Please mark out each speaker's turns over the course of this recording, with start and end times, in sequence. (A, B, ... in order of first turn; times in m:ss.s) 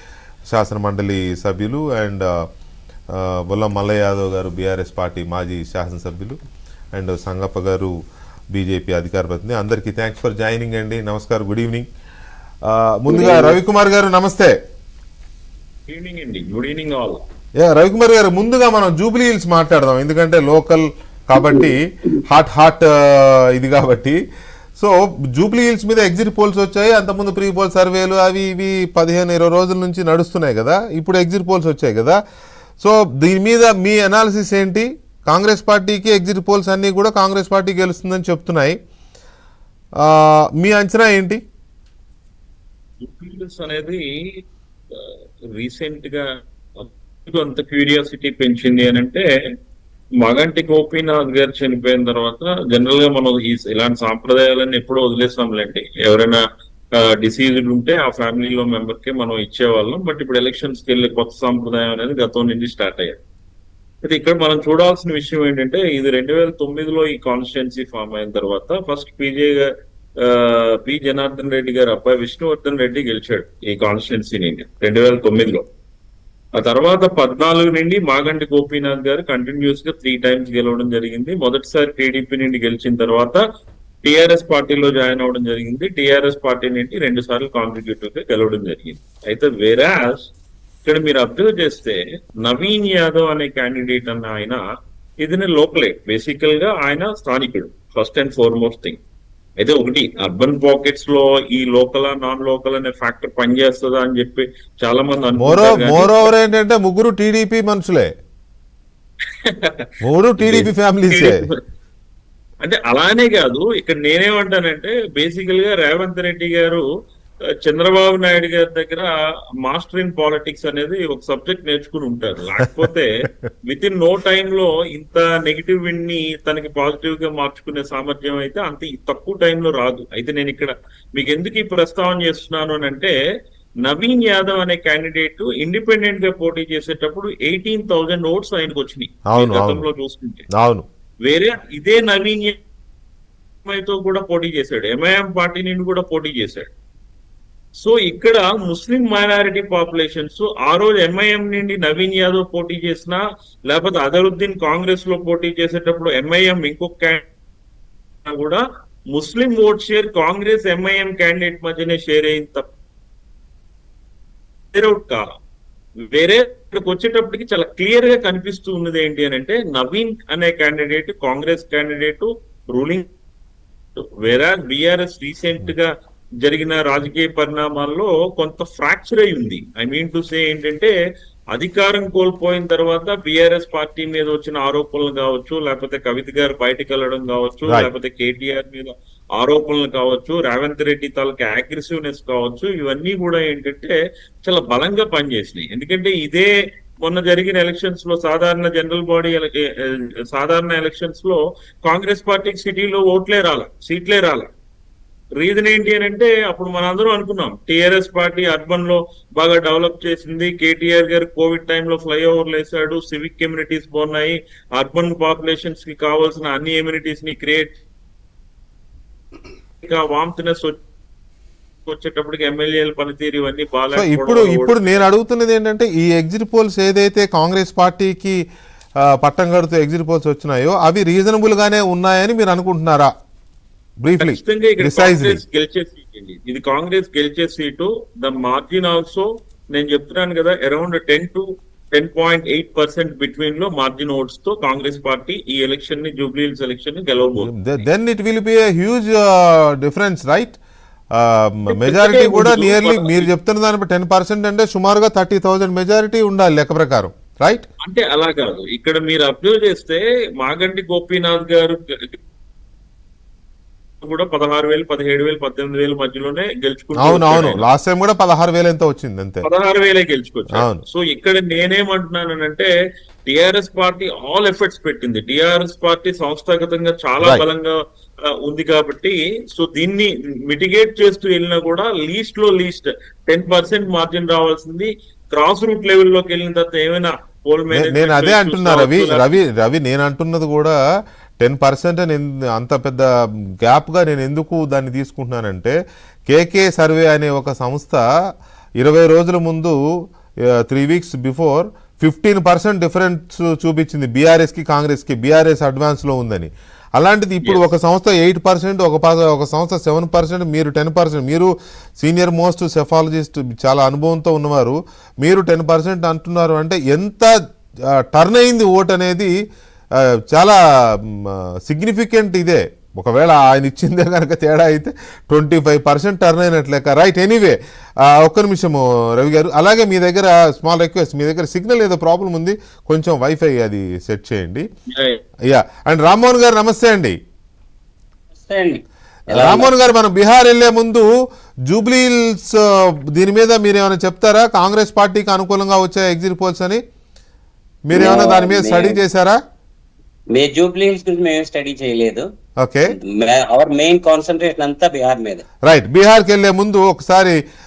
0:00.5-0:02.5 A
0:03.1-0:06.4 A
0:06.9-0:07.9 A
0:08.5-0:11.9 A
0:12.6-0:14.5 A
0:13.1-0:13.6 B
0:15.9-0:17.2 C
0:17.6-0:24.2 A
0:24.8-0:32.2 A
0:32.8-0:38.8 A
0:40.0-0:41.4 A
0:43.0-0:44.0 C
0:44.9-0:46.2 C
0:46.8-0:49.3 C
0:50.2-0:56.4 C
0:57.0-1:03.2 C
1:04.0-1:09.7 C
1:10.2-1:15.6 C
1:16.6-1:23.4 C
1:24.0-1:30.3 C
1:30.8-1:34.6 C
1:35.2-1:39.0 C
1:39.6-1:46.3 C
1:45.4-1:48.1 A
1:49.4-1:49.9 C
1:50.0-1:51.4 A
1:50.4-1:51.6 C
1:52.6-1:56.8 C
1:57.6-1:59.1 C
1:59.6-2:03.1 C
2:03.7-2:13.1 C
2:13.8-2:20.4 C
2:19.3-2:19.8 A
2:20.5-2:20.8 A
2:21.2-2:22.6 C
2:23.7-2:26.7 C
2:27.8-2:37.2 C
2:38.2-2:38.6 C
2:39.1-2:42.7 C
2:44.7-2:45.3 C
2:46.1-2:53.1 C
2:54.0-2:55.9 C
2:56.4-3:00.9 C
3:01.5-3:16.5 C
3:17.0-3:24.5 C
3:25.4-3:37.8 C
3:39.8-3:40.8 C
3:41.9-3:45.0 C
3:44.0-3:48.4 A
3:49.0-3:53.1 A
3:54.0-3:55.4 A
3:54.2-4:07.7 C
4:07.4-4:10.6 A
4:11.2-4:17.7 A
4:11.7-4:13.3 C
4:17.8-4:22.2 C
4:24.0-4:27.6 C
4:27.0-4:29.5 A
4:29.4-4:32.7 C
4:30.6-4:30.8 A
4:33.3-4:37.8 C
4:38.3-4:49.4 C
4:47.7-4:50.8 A
4:51.4-4:53.1 A
4:53.6-4:55.8 A
4:56.3-4:58.0 A
4:58.8-4:59.8 A
5:00.7-5:11.5 A
5:12.0-5:17.3 A
5:18.1-5:19.3 A
5:20.3-5:20.6 A
5:21.2-5:27.6 A
5:28.1-5:34.6 A
5:34.9-5:35.2 C
5:35.5-5:37.2 A
5:38.4-5:39.7 B
5:39.3-5:41.1 A
5:41.7-5:42.6 A
5:43.1-5:46.8 A
5:47.9-5:49.4 A
5:47.9-5:49.0 B
5:50.3-5:52.2 B
5:52.6-5:52.9 A
5:52.9-5:55.4 B
5:55.7-5:57.4 A